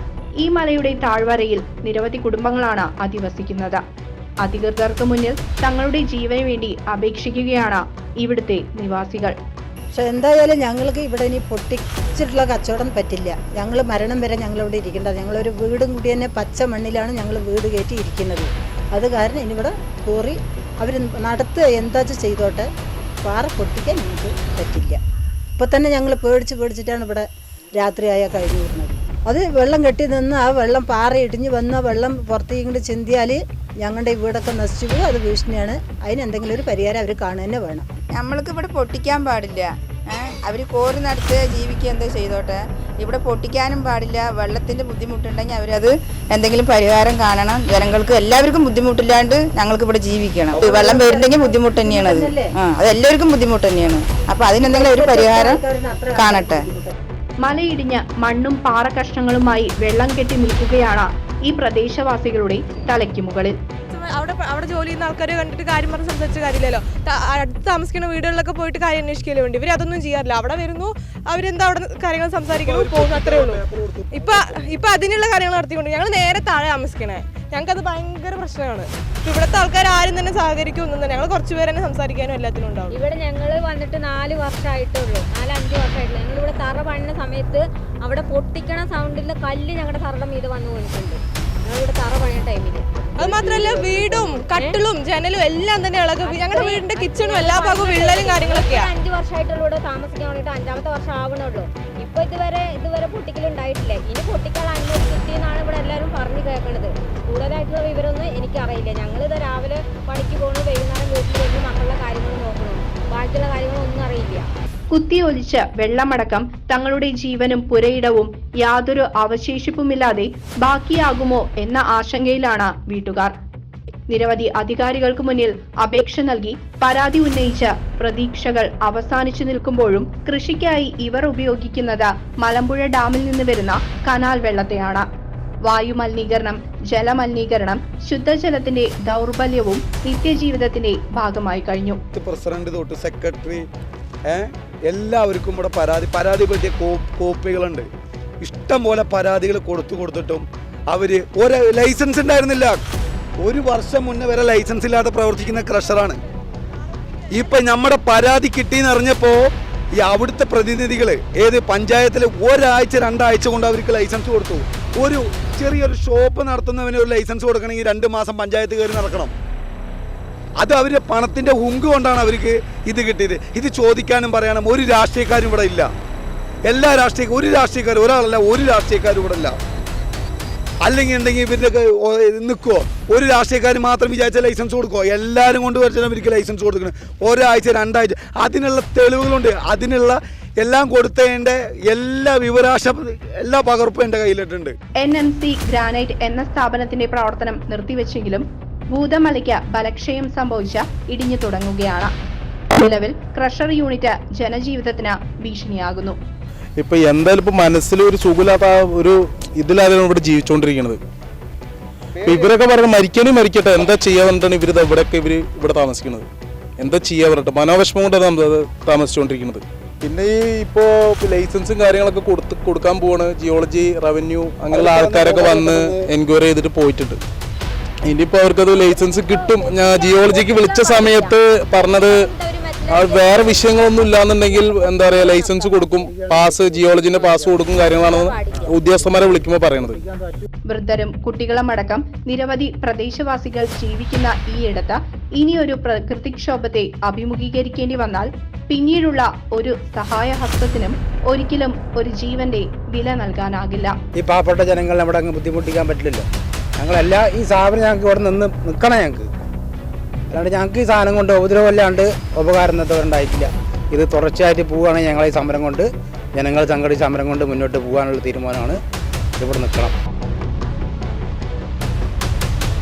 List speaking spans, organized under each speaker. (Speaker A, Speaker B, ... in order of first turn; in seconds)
Speaker A: 0.4-3.8, 4.4-9.3, 57.4-63.5, 114.9-123.3, 124.1-135.1, 135.6-142.0, 195.0-202.1, 202.8-206.2, 240.7-253.9
Speaker B: 9.9-22.7, 23.2-25.0, 25.6-37.9, 50.5-52.5, 54.6-56.9
Speaker C: 38.1-55.6, 56.1-56.7
Speaker D: 63.9-83.0, 93.2-98.9
Speaker E: 72.5-74.9, 142.1-143.7, 144.2-147.9, 148.4-152.8, 153.4-156.2, 157.3-169.3, 170.6-175.9, 176.7-179.6, 180.8-194.8, 212.2-212.5, 224.7-226.1
Speaker F: 82.9-94.8, 96.2-114.5, 228.7-235.9, 236.6-239.0
Speaker G: 206.8-211.0, 212.2-227.2, 228.1-232.3, 232.9-240.0
Speaker H: 254.2-256.2, 256.8-259.3, 260.3-268.8, 269.4-269.9